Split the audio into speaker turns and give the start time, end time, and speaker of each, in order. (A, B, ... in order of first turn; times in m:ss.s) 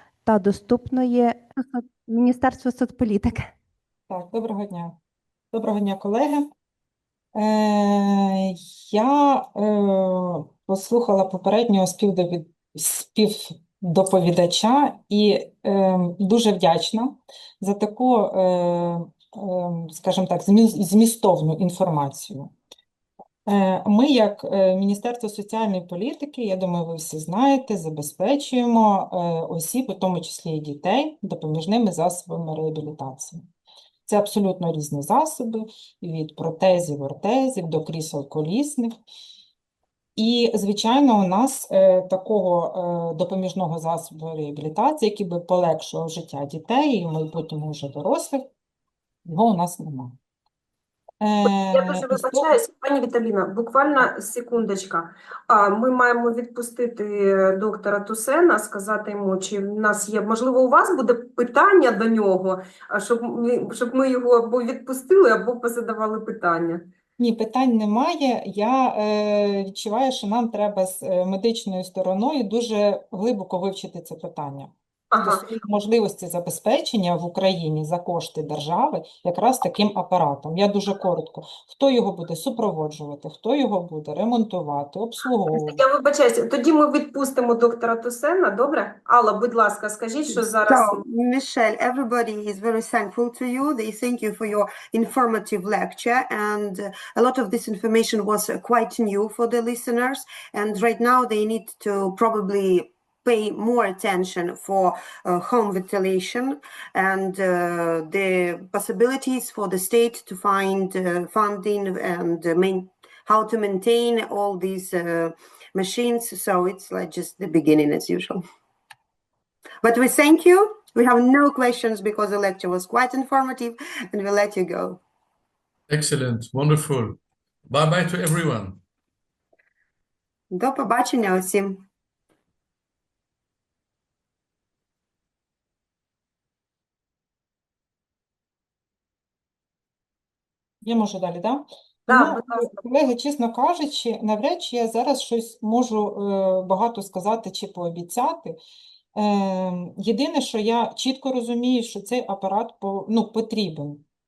0:00.2-0:03.5 A
0:04.1-0:05.0 B
0:05.5-0:06.4 B
0:07.3-0:22.5 B
0:23.5-0:33.4 B
0:34.1-0:38.9 B
0:40.2-0:48.4 B
0:49.2-0:50.2 B
0:51.2-0:52.5 B
0:51.5-1:06.8 C
1:07.2-1:25.8 B
1:15.1-1:15.5 C
1:25.5-1:31.0 C
1:30.3-1:58.4 D
1:59.8-2:05.0 D
2:05.9-2:08.8 E
2:10.5-2:11.8 D
2:20.8-2:28.6 B
2:22.1-2:22.7 C
2:29.1-2:34.0 B